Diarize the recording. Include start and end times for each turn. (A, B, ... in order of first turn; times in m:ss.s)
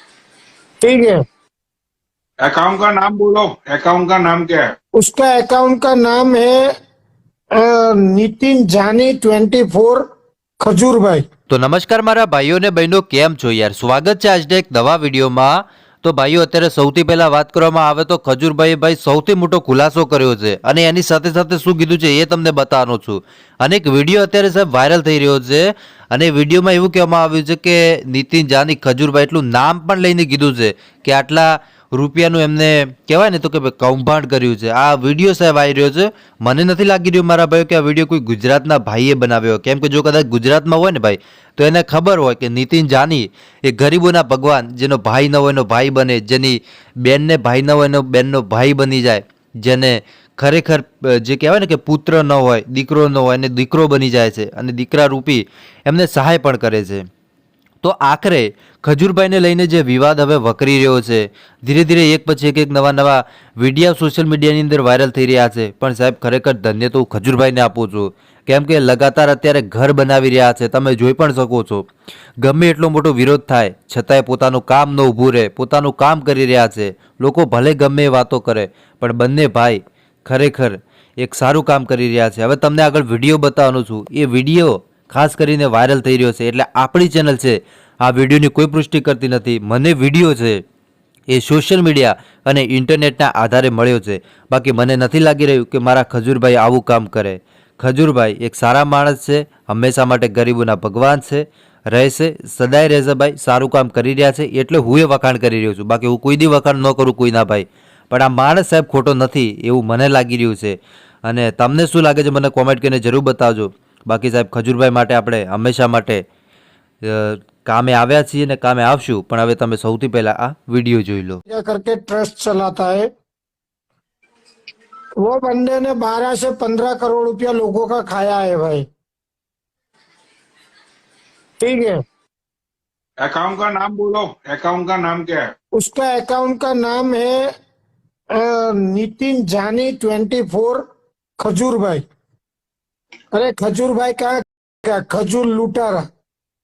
0:00.8-0:01.2 A
0:02.4-0:04.7 B
0:05.0-0:06.7 A
0:07.5-0:10.1 A
0:10.6-0:11.3 A
0:11.5-0:57.0 C
0:57.8-1:11.9 C
1:12.4-1:30.6 C
1:31.3-1:56.2 C
1:57.0-2:01.4 C
2:01.5-2:03.1 A
2:05.2-2:08.9 A
2:11.6-2:12.0 A
2:13.2-2:15.4 B
2:15.8-2:17.5 A
2:18.3-2:20.9 A
2:21.4-2:22.0 A
2:23.3-2:26.1 A